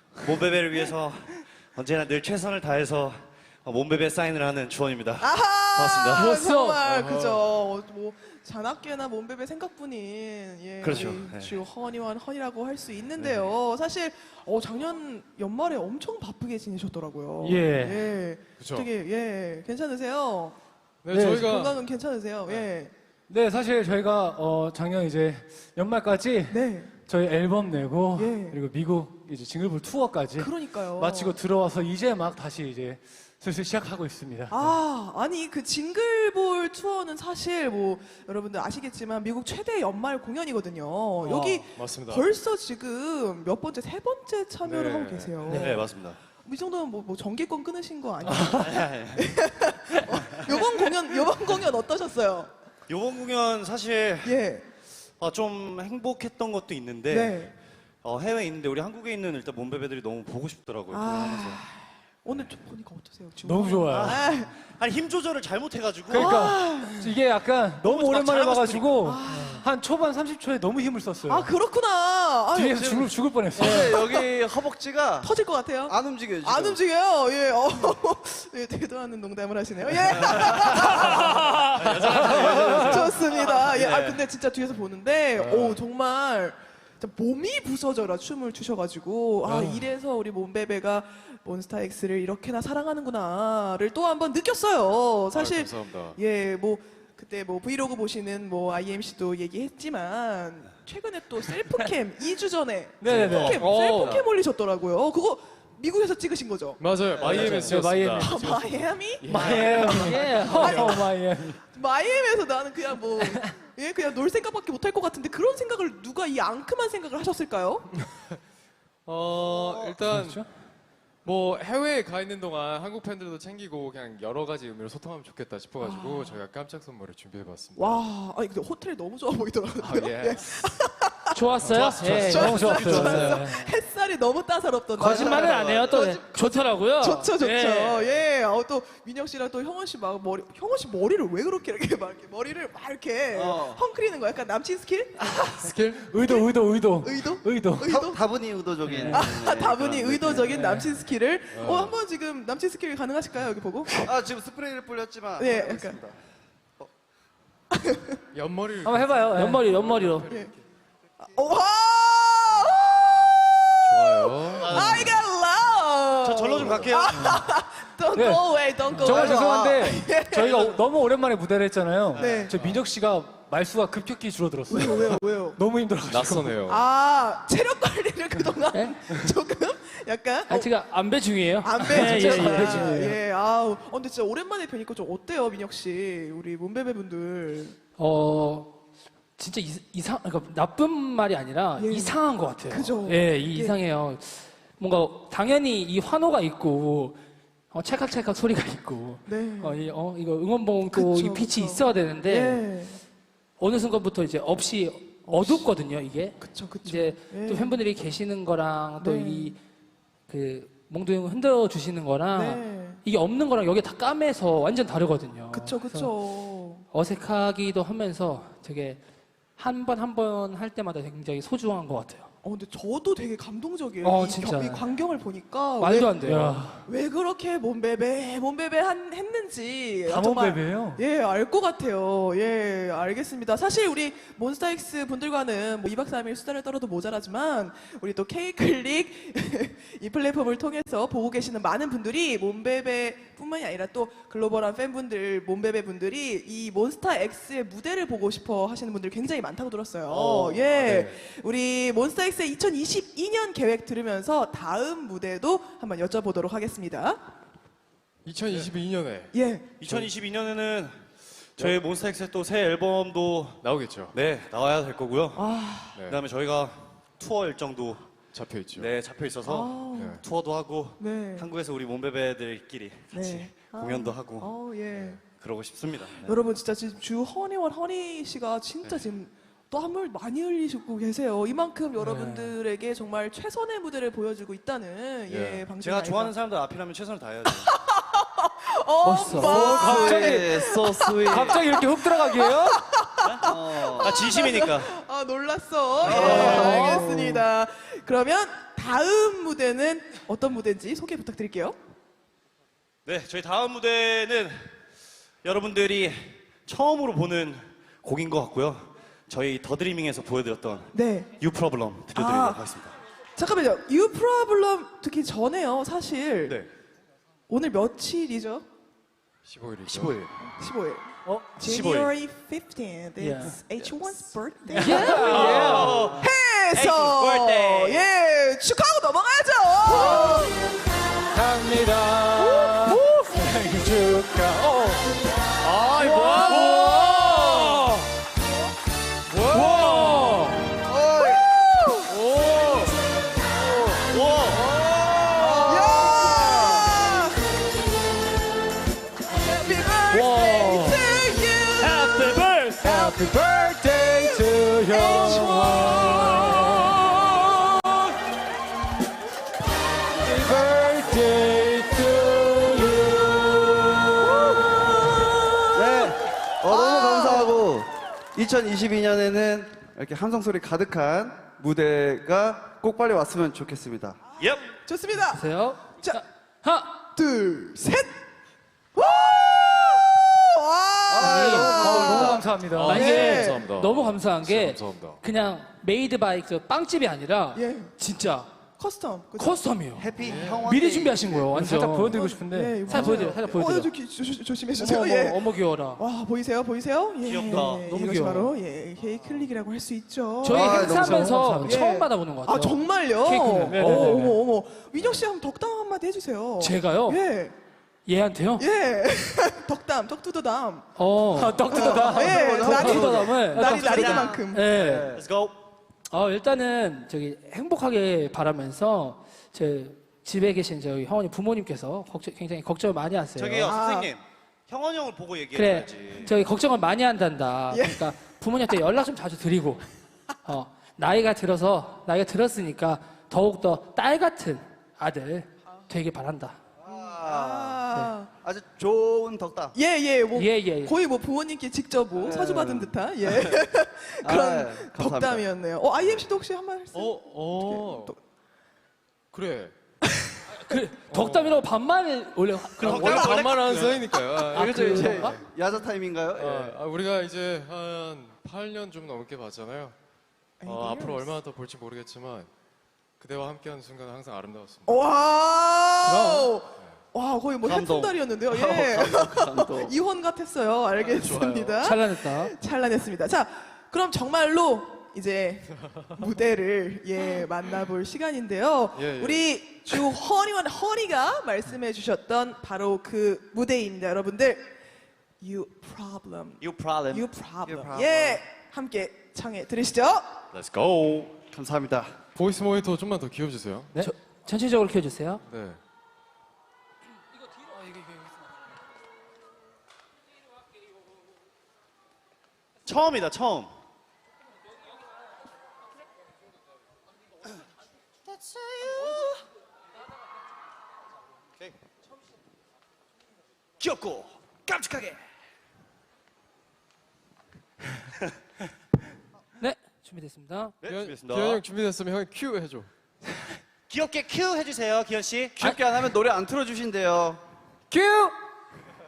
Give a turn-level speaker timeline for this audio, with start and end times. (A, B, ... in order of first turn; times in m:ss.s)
0:00.2-0:06.3 A
0:05.2-0:20.6 B
0:06.1-0:06.8 C
0:06.8-0:07.5 D
0:10.8-0:11.6 A
0:13.2-0:13.5 A
0:17.4-0:18.1 C
0:18.6-0:18.9 D
0:21.0-0:21.8 D
0:21.1-0:21.5 C
0:21.2-0:22.9 B
0:23.3-0:34.6 C
0:26.5-0:26.9 B
0:28.2-0:28.6 B
0:30.4-0:31.4 B
0:34.5-0:45.9 B
0:41.2-0:41.6 E
0:41.7-0:42.3 D
0:44.6-0:45.5 D
0:45.5-0:45.8 E
0:45.5-0:46.2 A
0:46.4-0:52.5 B
0:48.4-0:49.3 A
0:50.1-0:50.8 A
0:52.9-0:54.4 A
0:54.2-0:54.6 B
0:55.2-0:57.4 A
0:57.1-0:57.5 B
0:58.0-1:01.6 A
1:00.9-1:04.5 B
1:03.4-1:04.2 C
1:03.9-1:06.6 A
1:06.1-1:11.5 C
1:06.1-1:07.1 B
1:07.8-1:09.0 A
1:09.0-1:09.6 B
1:11.3-1:14.2 B
1:12.5-1:14.2 C
1:13.6-1:15.3 F
1:15.2-1:47.6 B
1:15.9-1:16.8 F
1:20.3-1:21.0 A
1:21.7-1:24.2 A
1:25.4-1:25.8 D
1:29.4-1:29.9 D
1:35.3-1:36.2 D
1:43.0-1:44.2 C
1:43.1-1:44.2 A
1:46.8-1:48.6 D
1:47.2-1:47.8 A
1:47.2-1:48.6 C
1:48.2-1:51.1 B
1:49.2-1:50.4 D
1:49.3-1:50.9 A
1:49.3-1:51.6 C
1:50.0-1:50.9 E
1:51.7-1:57.9 B
1:59.0-2:00.4 D
1:59.6-1:59.9 A
2:00.1-2:00.5 C
2:01.2-2:08.0 D
2:05.8-2:06.4 B
2:07.8-2:28.2 B
2:09.8-2:10.7 D
2:11.3-2:13.0 E
2:11.7-2:13.4 A
2:11.8-2:13.7 C
2:15.0-2:18.0 E
2:15.0-2:16.0 A
2:15.3-2:15.9 F
2:23.3-2:23.8 F
2:25.6-2:26.1 D
2:26.0-2:28.0 C
2:27.8-2:30.6 F
2:28.8-2:29.2 D
2:28.9-2:29.2 A
2:29.1-2:34.0 B
2:30.5-2:30.9 C
2:31.5-2:32.0 D
2:34.0-2:36.1 F
2:35.4-2:36.0 B
2:37.7-2:38.2 B
2:38.3-2:40.6 D
2:38.8-2:39.8 C
2:39.3-2:40.3 E
2:41.2-2:50.8 B
2:43.8-2:45.2 D
2:44.6-2:45.1 A
2:46.2-2:47.4 A
2:46.5-2:47.3 D
2:48.1-2:56.6 C
2:49.1-2:49.9 F
2:52.1-2:52.5 B
2:52.2-2:52.4 A
2:52.5-2:52.9 D
2:54.7-2:55.6 B
2:56.1-2:56.8 D
2:56.7-3:00.7 B
2:58.7-2:59.1 E
3:00.5-3:03.1 E
3:01.6-3:07.8 B
3:01.8-3:03.2 C
3:08.0-3:08.7 E
3:09.4-3:17.2 E
3:11.8-3:13.8 B
3:17.7-3:22.6 E
3:19.2-3:19.8 B
3:20.9-3:23.0 B
3:23.6-3:29.6 E
3:25.3-3:25.7 B
3:26.4-3:27.8 B
3:29.0-3:29.5 B
3:30.3-3:36.1 E
3:32.3-3:33.0 B
3:35.5-3:36.8 B
3:36.9-3:39.0 E
3:39.6-3:42.3 E
3:42.4-4:17.2 B
3:44.0-3:44.8 E
3:45.8-3:46.8 E
3:46.3-3:46.7 C
3:50.0-3:51.0 C
4:10.1-4:11.2 D
4:18.2-4:19.3 D
4:19.3-4:19.7 B
4:19.8-4:21.0 A
4:19.8-4:20.1 D
4:21.6-4:25.5 A
4:23.6-4:24.2 D
4:25.4-4:26.0 B
4:25.9-4:26.2 D
4:26.1-4:28.1 A
4:28.3-4:28.9 D
4:28.7-4:34.5 A
4:29.4-4:30.2 B
4:30.0-4:30.2 D
4:31.0-4:31.5 B
4:33.1-4:35.2 B
4:34.9-4:35.2 D
4:35.3-4:36.4 A
4:36.2-4:46.4 B
4:42.0-4:42.5 C
4:45.3-4:45.7 D
4:45.8-4:47.7 A
4:47.5-5:01.8 B
4:49.0-4:49.7 E
4:49.1-4:52.8 C
4:49.6-4:51.7 F
4:53.2-4:54.9 A
4:53.4-4:54.0 F
4:56.0-4:57.0 A
4:56.0-4:57.4 C
4:56.1-4:56.4 F
4:56.5-4:57.0 E
5:03.0-5:04.6 A
5:05.4-5:12.9 A
5:10.9-5:11.3 B
5:12.1-5:12.6 B
5:13.4-5:16.6 B
5:17.5-5:18.6 B
5:19.4-5:20.2 D
5:19.9-5:20.3 A
5:20.4-5:30.5 B
5:21.2-5:21.6 C
5:21.6-5:22.1 A
5:23.2-5:23.6 C
5:24.7-5:26.2 C
5:24.7-5:26.0 E
5:24.8-5:28.1 A
5:29.9-5:30.5 C
5:31.3-5:35.1 C
5:35.6-5:37.8 C
5:36.5-5:36.8 D
5:39.3-5:40.1 D
5:39.5-5:40.6 C
5:40.9-5:41.4 F
5:41.2-5:42.1 B
5:42.1-5:42.9 D
5:42.2-5:42.8 A
5:44.0-5:45.8 A
5:45.3-5:46.9 F
5:45.6-5:47.4 B
5:49.5-5:53.2 B
5:50.1-5:51.0 C
5:51.8-5:52.9 A
5:52.8-5:57.5 C
5:54.9-5:56.6 B
6:00.2-6:04.6 C
6:04.2-6:04.5 B
6:05.7-6:14.2 F
6:06.7-6:07.6 B
6:14.4-6:14.7 A
6:14.8-6:16.2 B
6:15.3-6:17.0 E
6:17.2-6:18.2 B
6:18.9-6:23.7 B
6:21.1-6:22.5 F
6:21.2-6:23.0 C
6:21.2-6:22.0 E
6:22.7-6:25.2 D
6:22.8-6:28.5 E
6:27.5-6:27.9 B
6:28.8-6:29.6 B
6:29.4-6:32.2 E
6:30.0-6:31.5 F
6:30.2-6:30.7 D
6:31.4-6:33.8 C
6:32.1-6:35.4 B
6:32.9-6:33.9 E
6:34.8-6:36.0 E
6:36.0-6:47.5 B
6:37.2-6:37.9 A
6:37.4-6:38.5 E
6:40.4-6:44.2 E
6:40.5-6:41.9 C
6:40.5-6:41.2 F
6:43.7-6:44.4 C
6:46.6-6:47.2 E
6:48.0-6:48.6 E
6:48.6-6:50.9 B
6:51.0-6:55.1 E
6:51.4-6:53.0 C
6:51.7-6:54.7 B
6:51.7-6:55.2 F
6:53.5-6:55.6 A
6:56.1-7:03.8 E
7:03.4-7:06.3 A
7:03.6-7:04.1 B
7:05.5-7:09.8 E
7:07.7-7:08.0 B
7:10.4-7:16.6 E
7:16.8-7:19.7 F
7:16.9-7:18.3 B
7:19.7-7:28.2 B
7:20.3-7:20.9 E
7:22.1-7:23.6 F
7:24.2-7:25.5 F
7:26.9-7:28.1 D
7:29.3-7:29.7 D
7:30.7-7:33.5 E
7:31.1-7:31.7 D
7:32.8-7:34.1 A
7:32.9-7:35.4 D
7:33.1-7:33.4 B
7:34.5-7:36.8 F
7:34.5-7:35.4 E
7:36.3-7:40.0 D
7:40.6-7:41.3 B
7:40.6-7:42.5 D
7:43.2-7:45.3 D
7:44.8-8:04.7 B
7:46.1-7:46.5 E
7:47.7-7:49.9 F
7:51.0-7:51.8 D
7:51.8-7:52.5 E
7:58.9-7:59.9 D
8:05.4-8:10.4 B
8:06.6-8:07.2 A
8:07.6-8:08.4 F
8:10.5-8:11.5 A
8:11.4-8:12.2 F
8:12.3-8:14.0 D
8:13.9-8:15.4 E
8:15.4-8:15.8 D
8:22.8-8:23.7 A
8:33.8-8:35.2 A
8:39.6-8:40.8 E
8:40.8-8:41.6 A
8:40.8-8:42.9 D
8:43.9-8:45.7 A
8:45.6-8:47.4 F
8:47.9-8:48.3 C